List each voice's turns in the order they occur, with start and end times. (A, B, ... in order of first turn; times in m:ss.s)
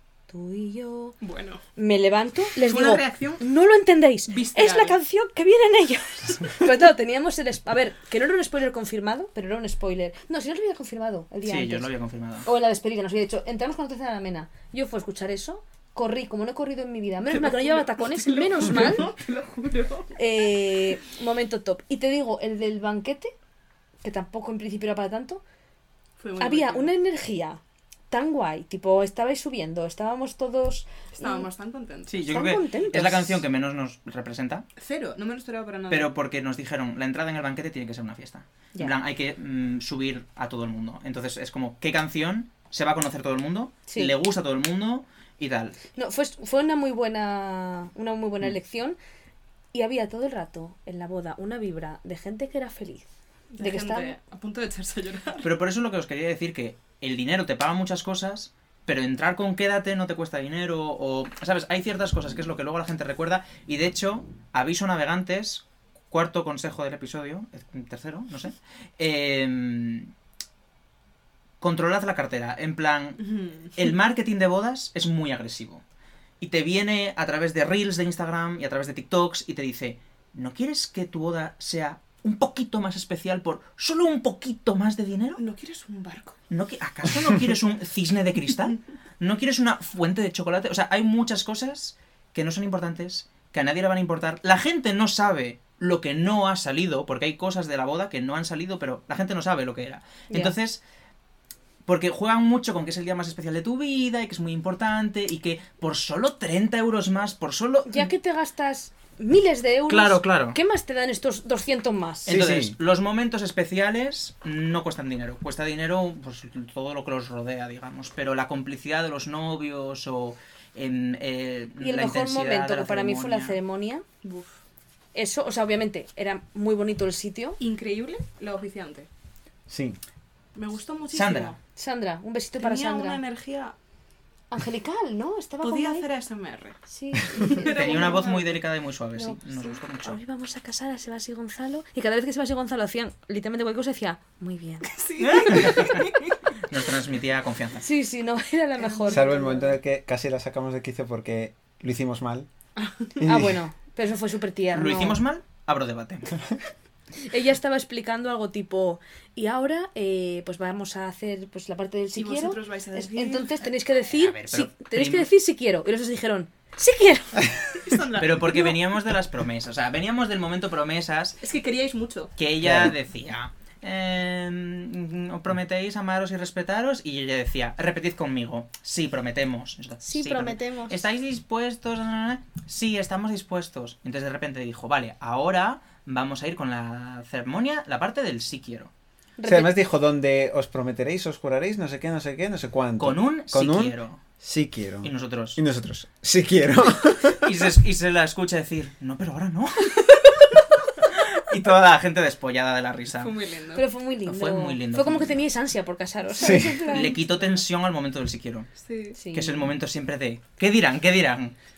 0:00.3-0:01.2 A
0:01.2-0:01.6 B
0:01.8-0:11.9 A
0:02.6-0:03.4 B
0:04.3-0:05.0 B
0:11.4-0:12.5 C
0:12.4-0:19.1 A
0:17.3-0:20.2 B
0:20.2-0:23.3 A
0:24.0-0:25.4 A
0:26.2-0:26.9 B
0:26.4-0:27.6 A
0:28.1-0:31.5 A
0:31.2-0:32.4 B
0:32.1-0:34.7 C
0:32.3-0:33.4 A
0:34.8-0:36.1 B
0:35.9-0:45.8 C
0:43.9-0:44.2 A
0:46.0-0:49.0 A
0:49.7-0:53.1 A
0:53.5-0:55.5 B
0:53.6-0:54.2 A
0:55.4-1:10.1 C
1:11.6-1:15.8 C
1:13.2-1:13.7 B
1:16.4-1:25.4 C
1:25.4-1:26.4 B
1:26.5-1:40.8 C
1:40.3-1:40.6 A
1:41.9-1:48.1 C
1:47.9-1:52.3 A
1:49.9-1:50.6 C
1:52.3-1:52.8 D
1:52.3-2:03.6 C
2:01.8-2:04.0 A
2:04.2-2:04.6 B
2:05.2-2:07.6 A
2:07.6-2:09.1 B
2:09.7-2:10.0 D
2:10.6-2:11.6 B
2:11.1-2:11.6 C
2:11.8-2:13.2 A
2:12.6-2:13.8 B
2:14.5-2:16.1 A
2:15.6-2:16.8 B
2:16.9-2:18.1 A
2:17.3-2:18.5 B
2:17.6-2:20.2 C
2:19.2-2:24.9 A
2:24.8-2:26.4 B
2:25.2-2:26.1 C
2:26.7-2:27.8 C
2:27.8-2:29.7 A
2:28.8-2:29.6 B
2:29.1-2:32.5 D
2:32.8-2:33.2 B
2:33.2-2:33.6 D
2:33.2-2:35.2 A
2:34.7-2:36.4 C
2:37.2-2:47.8 A
2:42.2-2:43.6 B
2:44.1-2:45.3 C
2:47.8-2:48.7 B
2:48.2-2:51.4 C
2:51.4-2:52.3 B
2:52.4-3:08.9 C
2:52.6-2:52.9 D
3:00.0-3:01.0 A
3:09.4-3:09.8 A
3:09.4-3:17.6 D
3:13.0-3:14.2 C
3:15.0-3:15.6 C
3:17.3-3:23.4 C
3:23.2-3:23.8 B
3:23.8-3:27.2 A
3:24.3-3:25.4 C
3:26.4-3:26.9 D
3:26.8-3:28.7 C
3:26.8-3:27.5 B
3:28.8-3:29.2 B
3:29.1-3:29.7 A
3:29.3-3:31.6 C